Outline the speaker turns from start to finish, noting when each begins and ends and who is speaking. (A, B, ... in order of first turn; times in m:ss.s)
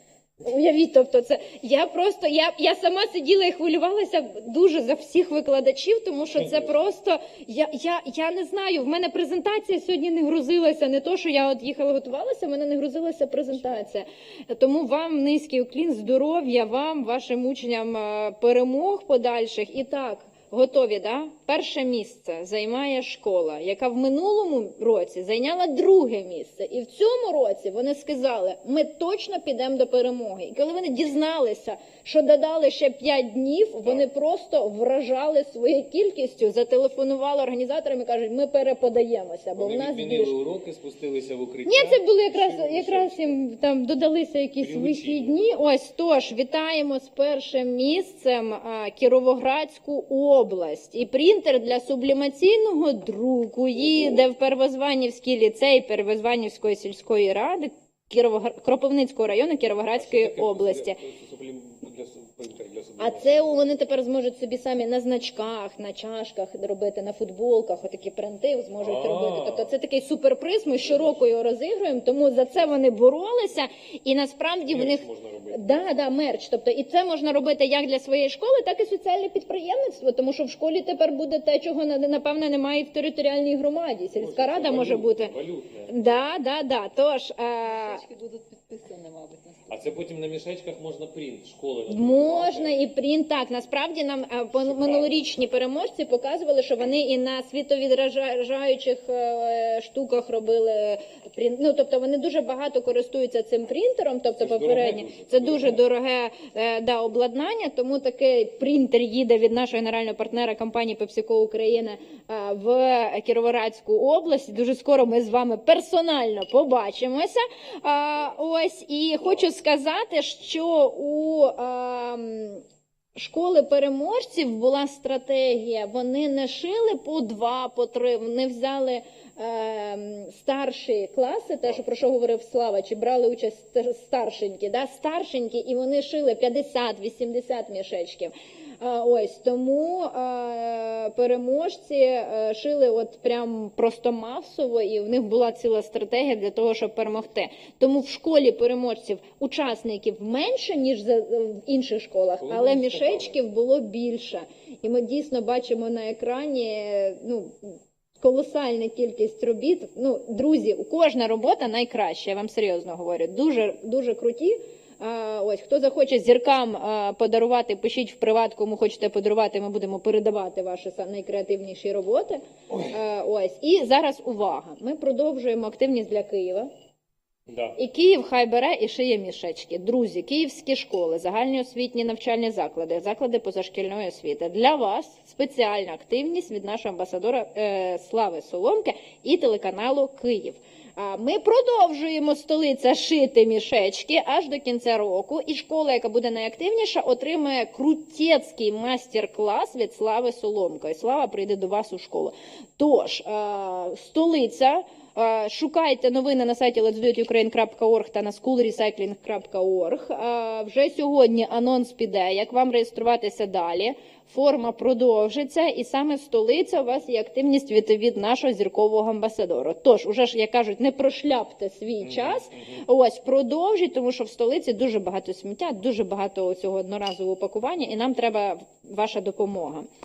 0:00.4-0:40.3 A
0:06.4-0:06.7 B
0:39.6-0:43.4 B
0:41.6-1:01.0 A
0:44.6-0:45.4 B
0:53.8-0:54.2 B
0:59.9-1:03.8 B
1:03.0-1:25.3 A
1:08.8-1:09.7 B
1:14.7-1:16.0 B
1:24.1-1:25.9 B
1:25.9-1:28.0 A
1:27.6-1:29.8 C
1:29.7-1:32.8 B
1:31.9-2:02.6 A
1:34.6-1:35.2 B
1:44.4-1:45.8 B
2:03.2-2:56.7 A
2:32.4-2:33.4 B
2:57.5-2:57.8 B
2:57.8-3:49.9 A
3:42.0-3:42.8 B